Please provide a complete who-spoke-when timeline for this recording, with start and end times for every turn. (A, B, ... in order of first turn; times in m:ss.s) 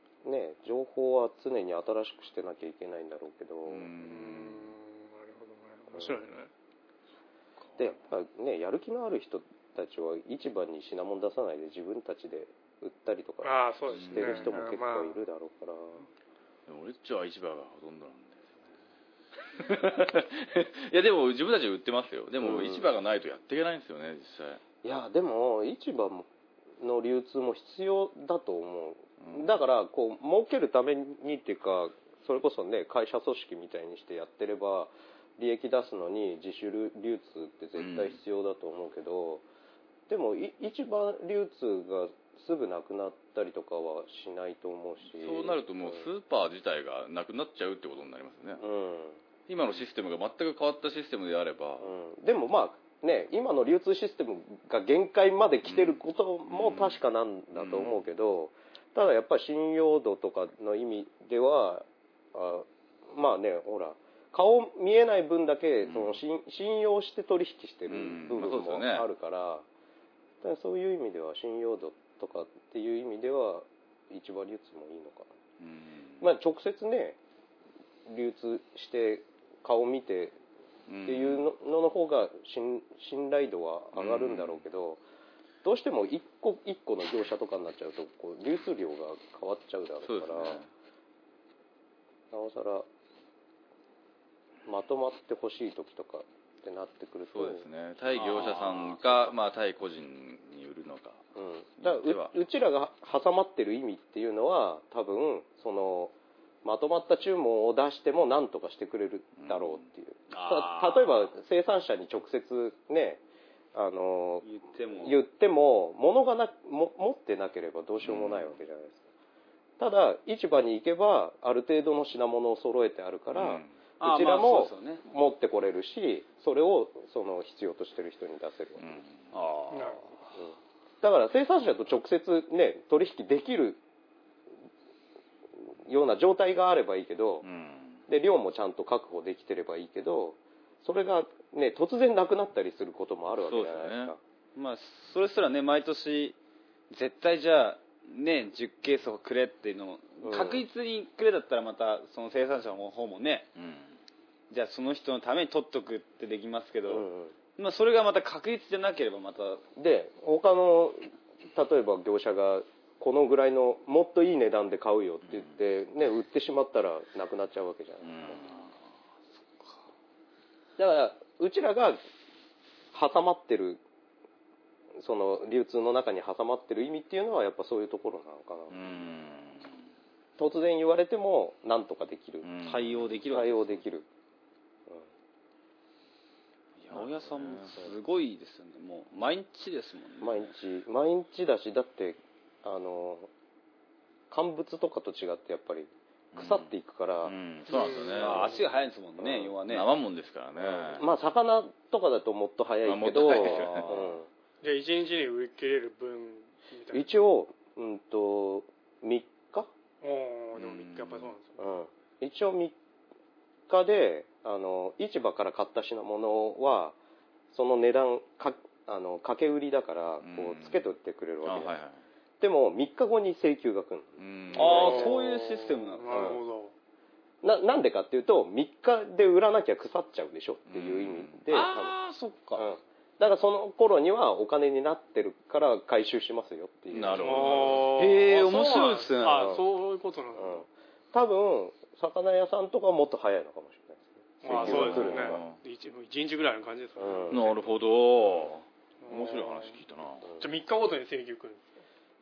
0:00.2-0:03.9 A
0:03.6-0:04.7 B
0:04.0-0:06.5 C
0:05.9-0:06.2 A
0:07.8-0:16.0 A
0:13.4-0:15.2 C
0:13.9-0:14.7 B
0:16.7-0:18.6 B
0:19.5-0:24.6 B
0:22.4-0:22.9 A
0:24.8-0:26.3 A
0:26.8-0:39.4 A
0:29.2-0:29.5 B
0:37.8-0:38.2 B
0:40.1-0:46.1 A
0:45.1-0:48.6 B
0:48.6-0:49.2 A
0:49.5-0:51.9 B
0:51.8-1:09.6 A
0:55.7-0:57.0 B
0:57.5-0:58.0 B
1:05.8-1:06.2 B
1:07.9-1:09.1 B
1:10.4-1:15.3 A
1:15.6-1:16.2 B
1:16.2-1:17.2 A
1:18.1-1:20.4 A
1:20.9-1:21.4 B
1:21.0-1:25.0 A
1:24.0-1:24.6 B
1:25.6-1:30.6 A
1:30.0-1:30.7 B
1:32.3-1:32.9 A
1:34.6-1:37.6 A
1:37.3-1:41.2 B
1:38.1-1:39.3 D
1:41.3-1:53.2 A
1:41.8-1:42.3 B
1:49.4-1:49.8 B
1:50.3-1:51.3 D
1:53.7-1:54.4 A
1:54.4-1:55.2 D
1:55.0-1:59.0 A
1:58.0-1:58.6 B
1:59.8-2:09.0 A
2:03.3-2:03.7 B
2:04.0-2:05.0 D
2:08.8-2:09.1 B
2:09.3-2:10.1 D
2:09.7-2:10.0 C
2:10.4-2:13.8 A
2:15.6-2:17.4 A
2:17.4-2:18.0 B
2:18.1-2:24.2 A
2:23.4-2:24.1 B
2:24.6-2:26.4 D
2:26.9-2:33.5 D
2:30.2-2:30.6 A
2:33.6-2:33.9 B
2:34.5-2:37.0 D
2:36.9-2:37.3 A
2:37.6-2:39.6 D
2:39.8-2:48.4 A
2:48.0-2:48.7 B
2:50.8-2:52.0 A
2:52.9-2:53.8 A
2:55.0-2:58.8 A
2:58.7-2:59.7 B
3:00.4-3:02.5 A
3:02.4-3:03.1 B
3:02.6-3:03.8 D
3:03.3-3:04.1 A
3:06.8-3:10.4 D
3:06.9-3:07.7 B
3:10.2-3:13.3 A
3:14.3-3:17.3 A
3:16.3-3:16.7 B
3:17.2-3:18.6 B
3:17.7-3:19.9 D
3:18.1-3:18.6 A
3:19.2-3:19.6 A
3:19.6-3:21.0 B
3:20.6-3:24.3 A
3:22.8-3:23.9 B
3:23.2-3:24.1 D
3:24.6-3:27.1 C
3:26.9-3:29.7 A
3:30.0-3:31.6 C
3:30.6-3:31.3 B
3:31.6-3:32.7 A
3:33.7-3:37.0 A
3:37.5-3:41.7 A
3:40.2-3:40.8 B
3:41.4-3:42.0 B
3:42.4-3:45.1 A
3:44.2-3:45.1 B
3:44.5-3:46.4 D
3:44.6-3:46.7 C
3:46.1-3:46.4 A
3:47.4-3:51.9 A
3:50.7-3:51.4 B
3:51.5-3:52.7 D
3:52.6-3:57.9 A
3:56.9-3:58.0 B
3:57.1-4:00.6 C
3:58.0-3:59.6 D
3:59.3-3:59.6 A
4:00.4-4:05.4 A
4:04.4-4:07.7 C
4:04.4-4:05.6 B
4:07.0-4:07.5 A
4:07.3-4:10.2 B
4:09.0-4:09.8 C
4:10.2-4:10.5 A
4:10.4-4:11.7 C